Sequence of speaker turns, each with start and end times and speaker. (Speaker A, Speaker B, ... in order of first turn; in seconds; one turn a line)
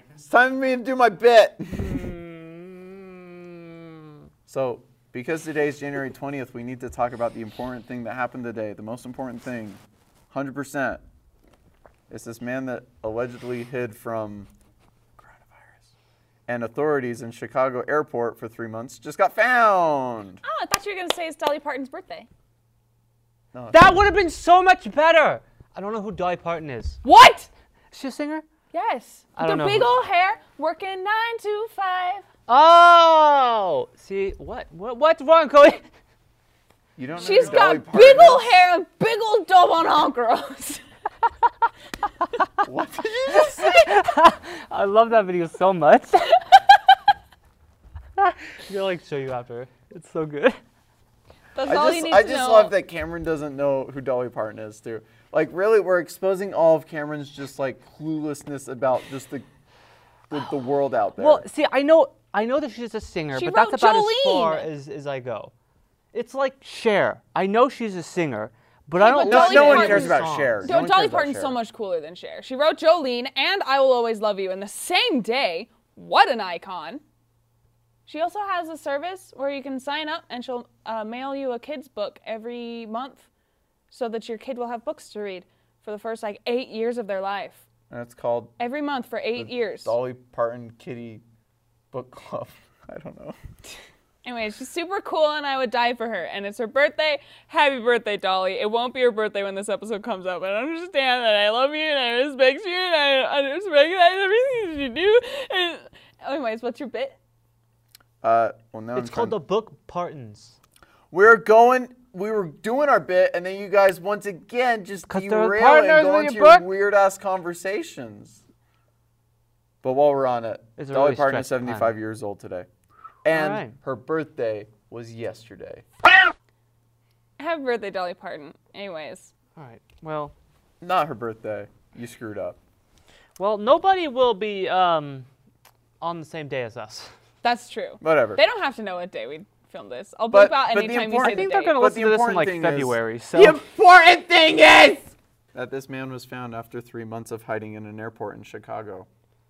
Speaker A: 0.2-2.0
Speaker B: 1.7-3.7
Speaker A: 4.5-11.0
Speaker A: 12.1-14.5
Speaker A: 15.2-15.8
Speaker A: 16.5-20.4
Speaker C: 20.4-22.3
Speaker A: 23.5-24.0
Speaker B: 23.7-27.0
Speaker C: 27.0-27.5
Speaker B: 27.9-28.4
Speaker C: 28.7-32.2
Speaker B: 29.4-29.9
Speaker B: 32.5-35.8
Speaker A: 37.0-38.5
Speaker C: 37.2-40.8
Speaker B: 37.3-37.6
Speaker A: 42.6-43.9
Speaker B: 43.3-46.4
Speaker B: 48.2-50.6
Speaker C: 51.5-52.7
Speaker A: 51.6-59.5
Speaker A: 60.3-61.4
Speaker B: 61.2-65.5
Speaker C: 63.3-64.7
Speaker B: 66.1-70.7
Speaker C: 69.0-77.0
Speaker A: 69.2-71.6
Speaker C: 78.1-83.3
Speaker C: 83.9-87.6
Speaker A: 87.9-88.5
Speaker C: 88.6-89.9
Speaker A: 89.4-91.2
Speaker A: 91.9-93.4
Speaker C: 94.2-107.2
Speaker A: 108.2-109.4
Speaker B: 108.9-110.6
Speaker A: 111.1-118.4
Speaker B: 115.1-116.7
Speaker A: 119.8-122.7
Speaker B: 120.8-122.0
Speaker A: 123.2-125.9
Speaker B: 123.3-123.7
Speaker C: 127.4-129.3
Speaker B: 129.6-130.3
Speaker A: 130.8-132.6
Speaker B: 133.4-135.3
Speaker B: 136.0-137.1
Speaker C: 137.4-141.8
Speaker A: 138.0-138.4
Speaker A: 140.3-149.1
Speaker B: 141.2-143.6